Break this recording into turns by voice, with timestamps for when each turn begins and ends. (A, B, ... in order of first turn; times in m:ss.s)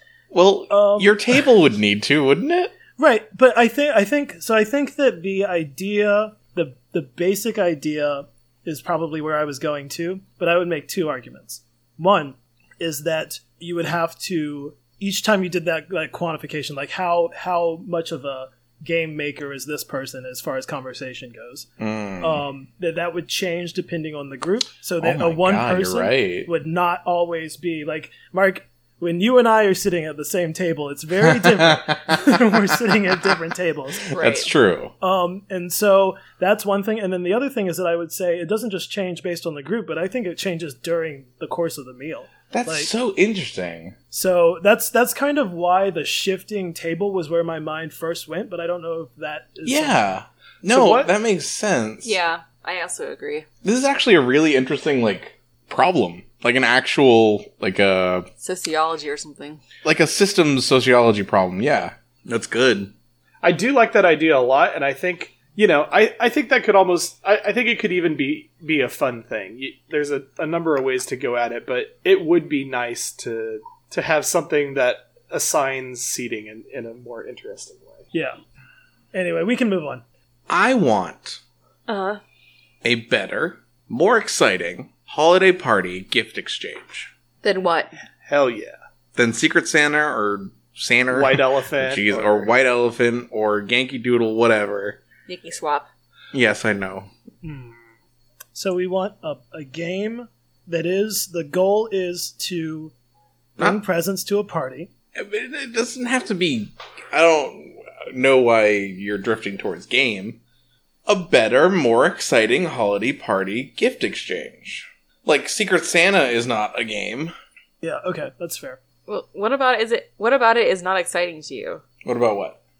0:00.3-0:02.7 A
0:00.7-0:01.4 B
0:03.0-0:21.7 B
0:21.8-0:22.4 A
0:22.2-0:34.1 B
0:25.0-0:26.5 A
0:31.2-0:32.3 A
0:34.1-0:34.5 C
0:34.1-0:34.9 A
0:35.0-0:42.9 B
0:42.5-0:44.0 A
0:44.1-0:50.1 B
0:49.6-0:52.2 A
0:50.7-0:51.1 D
0:52.0-0:53.4 C
0:53.6-0:58.3 A
0:58.4-0:59.6 C
0:59.8-1:02.9 A
1:03.4-1:18.1 D
1:19.1-1:20.0 B
1:20.5-1:21.4 A
1:21.9-1:22.2 C
1:22.8-1:27.1 A
1:27.4-1:27.9 C
1:28.2-1:28.8 D
1:29.2-1:35.0 A
1:31.1-1:32.5 D
1:35.3-1:35.9 C
1:36.3-1:37.1 A
1:37.4-1:37.8 B
1:38.5-1:42.9 B
1:43.6-1:44.9 B
1:45.1-1:50.4 A
1:51.0-1:57.3 A
1:57.8-1:58.8 B
1:59.1-2:01.8 C
2:02.0-2:02.6 A